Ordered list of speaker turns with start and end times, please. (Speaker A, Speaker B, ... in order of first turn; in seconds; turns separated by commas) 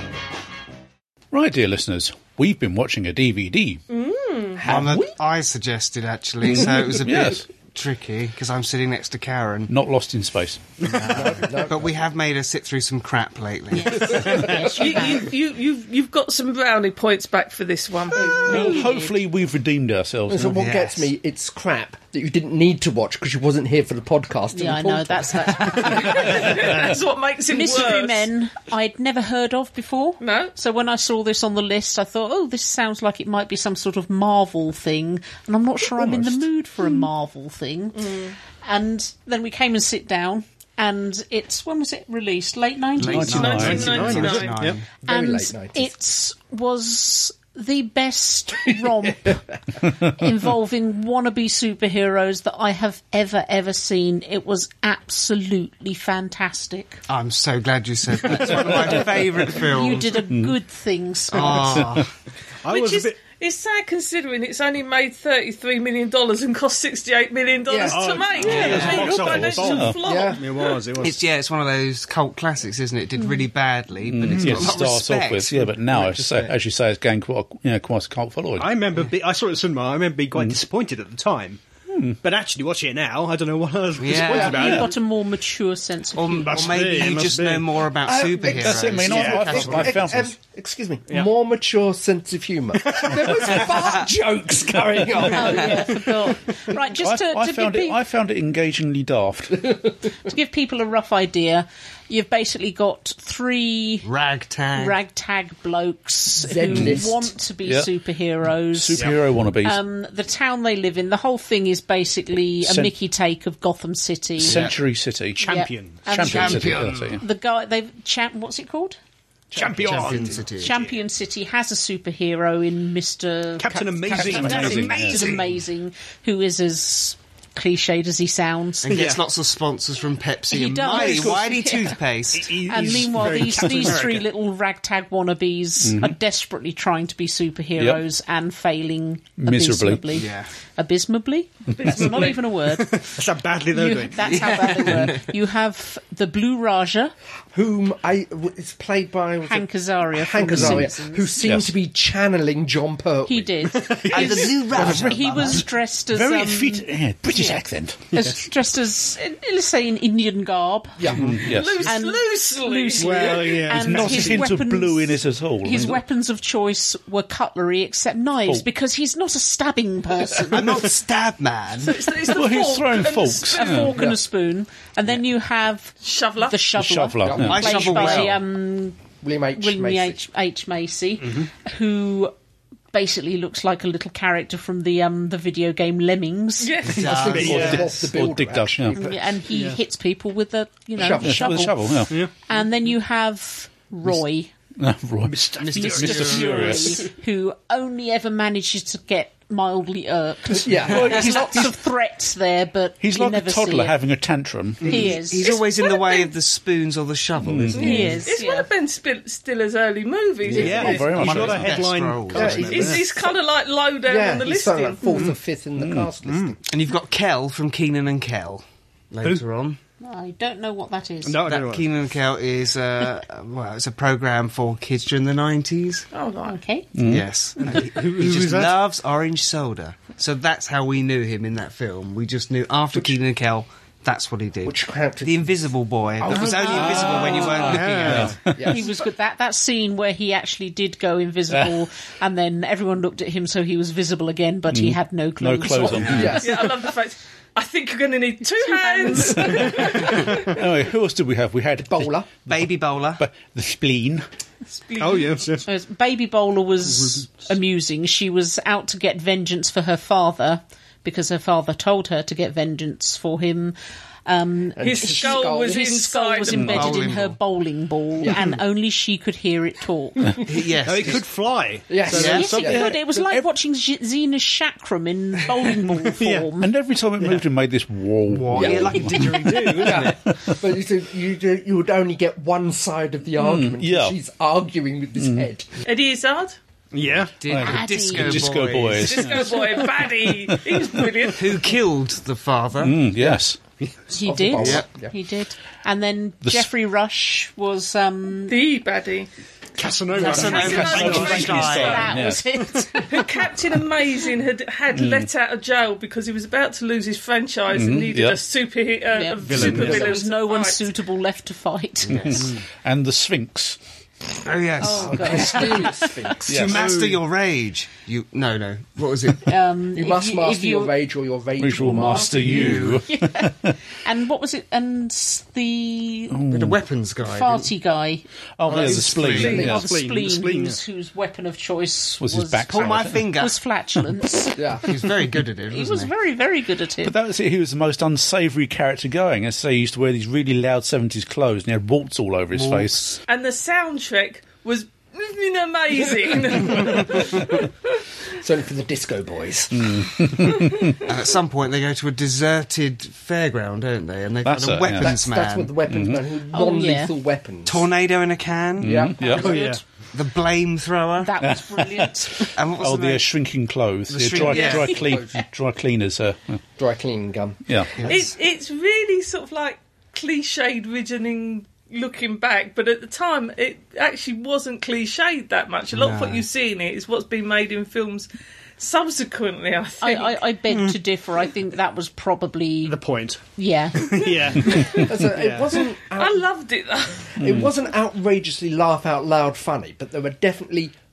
Speaker A: 1.3-3.8, Speaker B: 3.9-4.6, Speaker C: 4.6-5.0, Speaker D: 4.6-9.7, Speaker A: 4.7-5.0, Speaker A: 6.5-7.5, Speaker A: 9.7-10.7, Speaker D: 10.8-14.4, Speaker C: 11.1-11.9, Speaker E: 13.7-15.3, Speaker C: 14.1-14.6, Speaker F: 14.3-14.5, Speaker B: 14.8-18.4, Speaker E: 18.1-19.1, Speaker C: 18.1-18.5, Speaker A: 18.4-20.6, Speaker C: 20.3-26.2, Speaker D: 20.5-21.1, Speaker E: 24.5-26.5, Speaker B: 25.7-28.3, Speaker E: 27.5-43.6, Speaker B: 30.2-30.5, Speaker C: 36.0-36.4, Speaker B: 37.9-38.4, Speaker D: 43.0-44.8, Speaker A: 43.0-44.0, Speaker B: 43.3-44.6, Speaker F: 43.5-44.8, Speaker C: 45.0-45.9, Speaker E: 45.1-57.0, Speaker D: 57.1-60.2, Speaker E: 59.5-61.9, Speaker A: 60.3-60.5, Speaker D: 61.3-62.1, Speaker A: 61.7-62.0, Speaker F: 62.6-63.2, Speaker B: 62.7-70.8, Speaker C: 67.7-68.0, Speaker F: 67.9-71.2, Speaker D: 68.4-69.0, Speaker A: 68.7-70.0, Speaker C: 70.0-70.4, Speaker D: 71.0-76.0, Speaker A: 74.1-78.7, Speaker F: 74.3-74.7, Speaker F: 76.0-76.5, Speaker F: 78.6-81.6, Speaker A: 81.9-82.2, Speaker F: 82.2-85.0, Speaker D: 84.0-84.8, Speaker E: 84.3-86.7, Speaker D: 86.2-90.0, Speaker F: 86.3-87.8, Speaker C: 88.0-96.0, Speaker A: 88.5-90.3, Speaker F: 89.0-89.9, Speaker F: 92.8-93.8, Speaker E: 95.3-98.0, Speaker A: 97.0-99.8, Speaker E: 100.2-104.1, Speaker D: 104.0-105.0, Speaker E: 104.7-114.7, Speaker C: 106.4-107.3, Speaker A: 106.7-107.0, Speaker A: 108.7-109.8, Speaker F: 108.9-109.2, Speaker A: 112.6-112.9, Speaker A: 114.4-115.4, Speaker D: 114.4-114.8, Speaker F: 115.4-116.1, Speaker E: 115.5-119.0, Speaker A: 116.0-117.2, Speaker D: 116.2-117.1, Speaker F: 119.5-120.8, Speaker C: 119.5-120.3, Speaker D: 119.8-120.7, Speaker E: 120.6-129.0, Speaker F: 123.6-125.6, Speaker A: 124.2-125.3, Speaker D: 128.8-132.5, Speaker F: 128.9-129.2, Speaker E: 130.5-131.9, Speaker F: 130.9-131.7, Speaker F: 132.3-134.3, Speaker E: 132.6-143.1, Speaker A: 135.8-136.1, Speaker A: 137.8-138.0, Speaker A: 139.4-140.2, Speaker D: 140.1-140.5, Speaker B: 141.8-142.3, Speaker F: 142.0-144.4, Speaker E: 143.7-147.1, Speaker D: 144.2-145.2, Speaker C: 147.5-153.8, Speaker E: 149.4-151.4, Speaker A: 150.6-150.9, Speaker A: 151.4-151.7, Speaker E: 153.2-170.9, Speaker F: 153.7-154.8, Speaker D: 154.1-155.6, Speaker A: 154.7-158.0, Speaker C: 161.0-161.3, Speaker A: 161.1-161.9, Speaker B: 161.4-163.5, Speaker F: 163.0-164.6, Speaker A: 163.7-166.0, Speaker D: 170.5-172.0, Speaker B: 171.8-174.0, Speaker A: 172.2-174.1, Speaker E: 173.5-179.0, Speaker B: 176.0-176.6, Speaker A: 176.7-178.3, Speaker C: 177.2-177.6, Speaker D: 177.4-178.4, Speaker C: 179.2-180.2, Speaker E: 179.5-182.3, Speaker F: 181.2-181.5, Speaker E: 182.9-186.9, Speaker B: 186.6-187.1, Speaker D: 186.9-187.9, Speaker C: 186.9-189.2, Speaker F: 186.9-187.9, Speaker A: 187.4-189.1, Speaker E: 188.9-194.5, Speaker F: 189.5-189.8, Speaker C: 191.0-192.0, Speaker A: 191.2-192.2, Speaker A: 194.8-197.0, Speaker F: 195.2-196.8, Speaker D: 195.6-196.7, Speaker E: 195.7-204.0, Speaker C: 200.5-201.4, Speaker A: 200.9-201.7, Speaker A: 203.0-205.0, Speaker D: 204.8-208.1, Speaker E: 204.8-205.5, Speaker B: 205.4-206.3, Speaker A: 207.4-208.2, Speaker E: 207.8-208.7, Speaker B: 207.8-211.4, Speaker F: 210.5-213.1, Speaker A: 210.5-211.8, Speaker D: 210.6-212.9, Speaker C: 212.3-213.3, Speaker B: 212.7-215.1, Speaker C: 214.1-216.6, Speaker F: 215.1-215.3, Speaker A: 215.8-216.1, Speaker F: 216.2-216.5, Speaker D: 216.7-219.8, Speaker E: 220.0-221.4, Speaker F: 221.2-221.9, Speaker D: 221.5-226.1, Speaker B: 226.1-226.6, Speaker E: 226.4-226.9, Speaker A: 226.9-227.3, Speaker D: 227.1-238.4, Speaker F: 227.6-228.7, Speaker C: 234.6-235.5, Speaker C: 236.2-237.2, Speaker E: 236.3-237.8, Speaker A: 236.4-238.8, Speaker F: 236.4-238.4, Speaker C: 238.4-238.9, Speaker E: 238.6-246.7, Speaker A: 244.7-246.4, Speaker C: 246.0-246.5, Speaker B: 246.4-250.6, Speaker E: 248.6-250.2, Speaker A: 249.7-254.2, Speaker C: 251.8-252.3, Speaker D: 252.5-253.2, Speaker B: 254.8-255.3, Speaker F: 255.0-255.7, Speaker E: 255.6-263.7, Speaker F: 256.9-257.2, Speaker E: 264.2-270.4, Speaker C: 264.8-265.8, Speaker B: 264.8-266.9, Speaker A: 266.5-266.9, Speaker D: 266.6-267.4, Speaker D: 270.4-271.2, Speaker F: 270.8-272.9, Speaker C: 271.9-272.9, Speaker D: 272.1-272.5, Speaker E: 272.1-276.7, Speaker A: 272.6-273.4, Speaker F: 275.9-276.5, Speaker A: 276.6-280.6, Speaker F: 277.2-277.4, Speaker D: 278.3-279.9, Speaker F: 278.7-280.1, Speaker C: 279.8-285.7, Speaker A: 283.4-284.1, Speaker A: 285.2-285.5, Speaker B: 285.8-286.6, Speaker F: 286.9-287.4, Speaker D: 287.4-289.4, Speaker A: 287.5-291.3, Speaker E: 287.6-288.6, Speaker B: 289.0-291.7, Speaker D: 291.3-293.0, Speaker A: 292.8-293.6, Speaker E: 294.1-298.6, Speaker C: 294.2-295.1, Speaker D: 294.6-294.9, Speaker A: 296.4-296.7, Speaker B: 298.5-299.3, Speaker F: 299.8-301.9, Speaker D: 300.2-302.1, Speaker B: 300.3-302.1, Speaker E: 300.3-303.4, Speaker A: 300.6-302.5, Speaker B: 303.0-310.9, Speaker A: 304.9-305.3, Speaker A: 307.7-308.4, Speaker E: 309.1-312.5, Speaker F: 309.4-310.1, Speaker A: 309.6-309.8, Speaker D: 312.1-312.5, Speaker A: 312.2-313.8, Speaker D: 314.4-315.9, Speaker E: 314.8-316.1, Speaker C: 314.9-316.7, Speaker A: 316.4-316.8, Speaker D: 316.4-319.5, Speaker F: 316.7-317.2, Speaker E: 319.4-320.9, Speaker C: 319.9-322.7, Speaker A: 321.6-323.8, Speaker E: 321.8-326.4, Speaker D: 322.4-323.0, Speaker A: 326.3-326.8, Speaker D: 326.5-327.7, Speaker E: 327.3-328.2, Speaker A: 328.6-329.9, Speaker D: 328.7-329.7, Speaker F: 328.7-330.8, Speaker E: 329.3-334.9, Speaker A: 332.2-333.2, Speaker D: 332.7-333.6, Speaker C: 334.6-334.8, Speaker D: 334.8-336.1, Speaker E: 335.7-337.1, Speaker A: 337.0-343.2, Speaker D: 342.5-343.2, Speaker B: 343.3-348.0, Speaker C: 348.4-350.1, Speaker A: 349.7-351.0, Speaker B: 350.6-350.9, Speaker D: 351.1-355.7, Speaker A: 354.4-355.2, Speaker C: 355.0-357.9, Speaker A: 355.9-356.2, Speaker E: 356.5-357.1, Speaker D: 357.6-359.1, Speaker A: 358.8-359.5, Speaker C: 358.8-359.5, Speaker E: 359.2-359.8, Speaker F: 359.3-359.8, Speaker D: 360.1-361.3, Speaker E: 361.2-362.5, Speaker A: 361.4-366.6, Speaker D: 362.5-363.3, Speaker D: 364.1-365.1, Speaker C: 364.4-365.4, Speaker C: 366.8-368.2, Speaker A: 367.7-367.9, Speaker D: 368.0-368.3, Speaker B: 368.0-380.5, Speaker D: 375.9-376.4, Speaker E: 380.0-384.7, Speaker F: 380.7-381.0, Speaker F: 382.8-385.8, Speaker B: 384.6-385.1, Speaker C: 384.9-386.5, Speaker B: 385.7-387.3, Speaker C: 387.4-390.9, Speaker A: 387.4-387.7